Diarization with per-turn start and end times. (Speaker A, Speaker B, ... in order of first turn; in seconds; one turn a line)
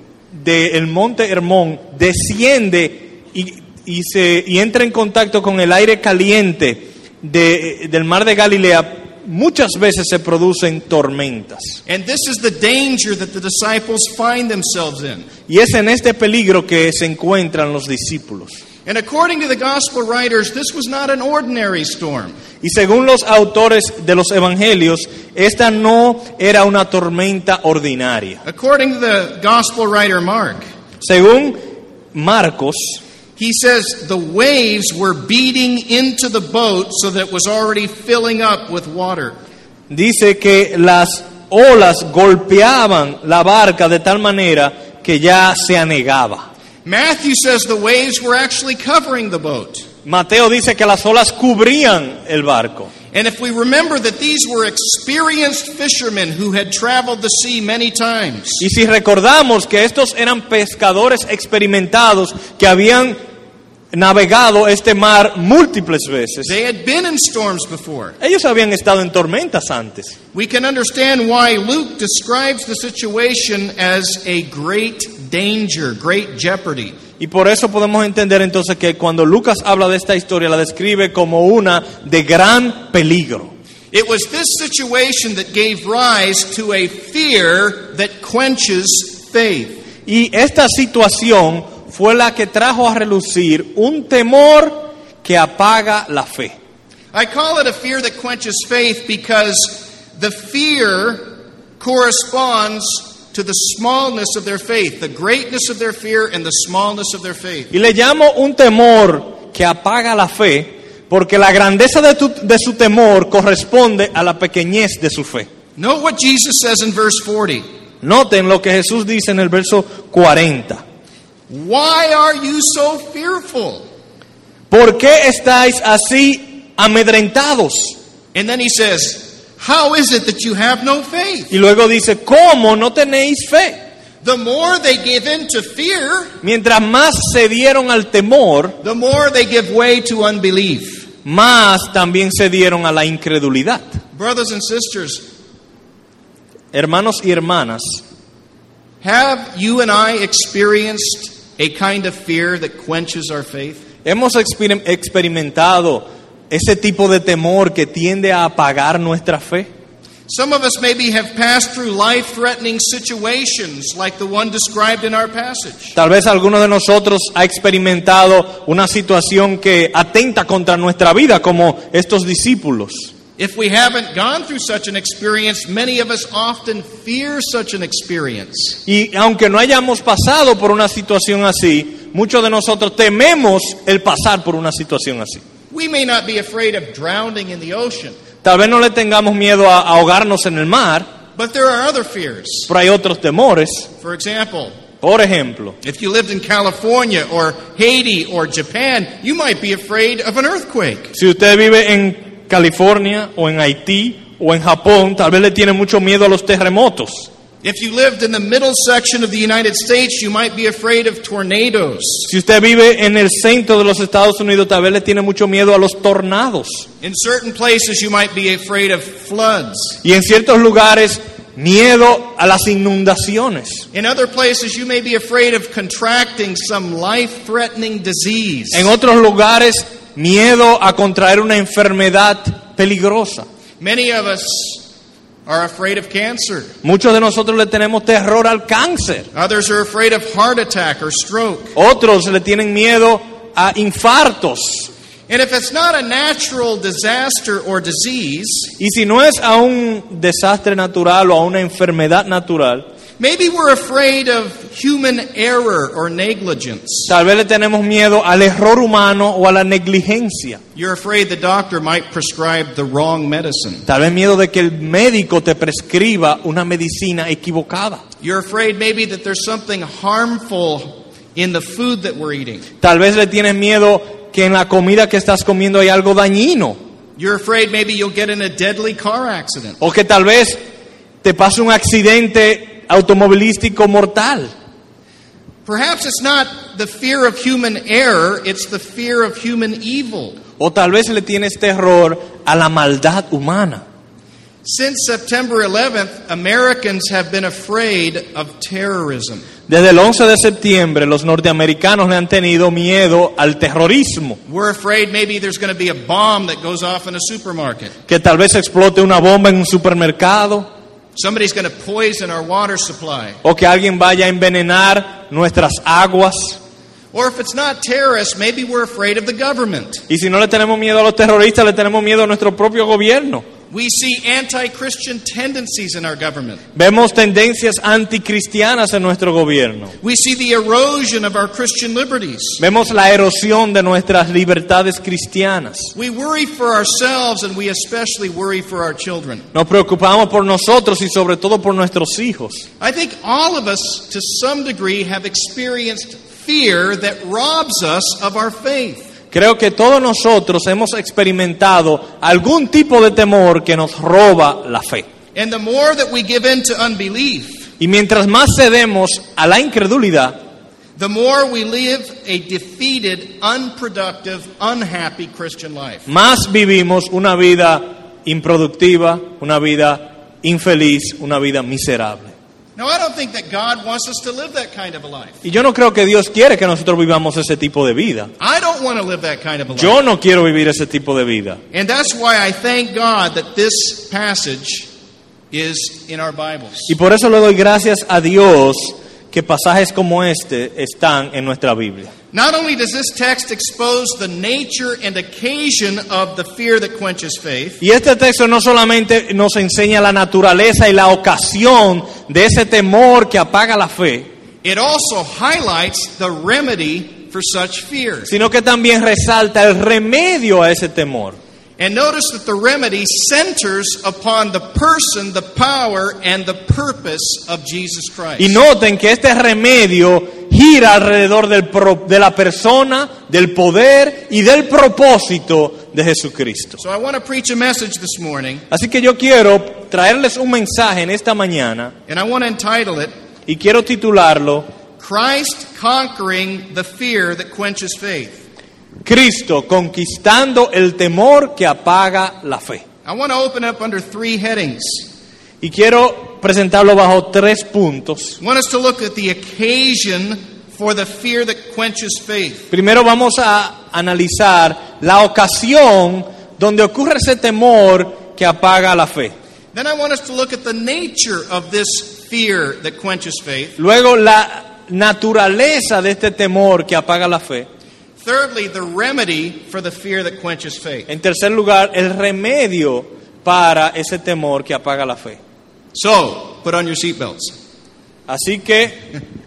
Speaker A: 0.3-11.8
Speaker B: 11.9-15.3
Speaker A: 15.5-18.6
Speaker B: 18.9-22.4
Speaker A: 22.6-28.4
Speaker B: 28.4-30.6
Speaker A: 31.0-31.6
Speaker A: 32.1-33.0
Speaker B: 33.4-39.4
Speaker A: 39.9-46.5
Speaker B: 46.8-49.9
Speaker A: 50.0-52.9
Speaker B: 53.1-58.6
Speaker A: 58.6-63.2
Speaker A: 63.9-66.5
Speaker B: 66.4-68.2
Speaker A: 68.2-70.2
Speaker B: 70.3-77.0
Speaker A: 77.2-83.5
Speaker B: 83.9-89.8
Speaker A: 90.0-96.5
Speaker B: 97.1-107.7
Speaker A: 107.7-115.5
Speaker B: 115.8-117.6
Speaker A: 118.0-120.8
Speaker B: 121.5-123.8
Speaker A: 124.7-128.0
Speaker B: 128.3-131.5
Speaker A: 131.5-133.8
Speaker B: 134.2-136.3
Speaker A: 136.4-138.8
Speaker B: 138.8-141.1
Speaker A: 141.2-144.0
Speaker B: 144.1-145.2
Speaker A: 146.7-148.0
Speaker B: 149.0-153.8
Speaker A: 154.0-159.7
Speaker B: 160.3-165.9
Speaker A: 165.9-173.1
Speaker B: 173.4-178.8
Speaker A: 178.8-185.4
Speaker B: 185.7-188.2
Speaker A: 188.4-191.1
Speaker B: 191.4-192.7
Speaker A: 192.7-193.9
Speaker B: 194.0-194.7
Speaker A: 195.0-195.8
Speaker B: 195.8-201.1
Speaker A: 201.1-207.3
Speaker B: 207.6-212.3
Speaker A: 212.3-216.9
Speaker B: 217.0-220.0
Speaker A: 220.0-223.8
Speaker B: 223.9-228.9
Speaker A: 228.7-233.4
Speaker B: 233.8-234.9
Speaker B: 235.4-236.7
Speaker A: 236.8-239.3
Speaker B: 239.3-241.8
Speaker A: 241.8-244.9
Speaker B: 245.3-248.7
Speaker A: 248.8-252.8
Speaker B: 253.2-257.1
Speaker A: 257.1-260.6
Speaker B: 260.8-263.9
Speaker A: 263.9-268.0
Speaker B: 268.2-272.6
Speaker A: 272.8-276.8
Speaker B: 277.2-279.8
Speaker A: 279.8-280.6
Speaker A: 281.2-284.5
Speaker B: 285.6-290.4
Speaker A: 290.6-293.8
Speaker B: 294.6-299.5
Speaker A: 299.7-304.4
Speaker B: 304.4-307.9
Speaker A: 308.1-310.7
Speaker B: 311.1-313.4
Speaker A: 313.4-316.6
Speaker B: 317.1-320.0
Speaker A: 320.1-323.5
Speaker B: 323.7-326.6
Speaker A: 326.7-329.9
Speaker B: 330.0-332.6
Speaker A: 332.6-335.9
Speaker B: 335.9-339.5
Speaker A: 339.5-342.7
Speaker B: 342.8-349.1
Speaker A: 349.3-355.1
Speaker B: 355.3-357.7
Speaker A: 357.8-360.4
Speaker B: 361.0-366.1
Speaker A: 366.1-372.3
Speaker B: 372.8-375.4
Speaker A: 375.4-378.3
Speaker B: 378.4-379.9
Speaker A: 379.7-381.6
Speaker B: 381.7-384.9
Speaker B: 385.5-386.9
Speaker A: 386.9-392.1
Speaker B: 392.3-397.8
Speaker A: 397.8-404.3
Speaker B: 404.6-408.3
Speaker A: 408.3-411.4
Speaker B: 411.8-418.6
Speaker A: 418.4-426.8
Speaker B: 426.8-428.6
Speaker A: 428.7-431.9
Speaker B: 432.1-433.1
Speaker A: 433.4-434.7
Speaker B: 435.0-438.4
Speaker A: 439.0-442.8
Speaker B: 443.0-445.1
Speaker A: 445.6-448.4
Speaker B: 448.4-452.7
Speaker A: 452.7-459.3
Speaker B: 459.7-463.8
Speaker A: 463.8-467.7
Speaker B: 468.2-471.1
Speaker A: 471.1-475.4
Speaker B: 475.9-477.5
Speaker A: 478.3-479.1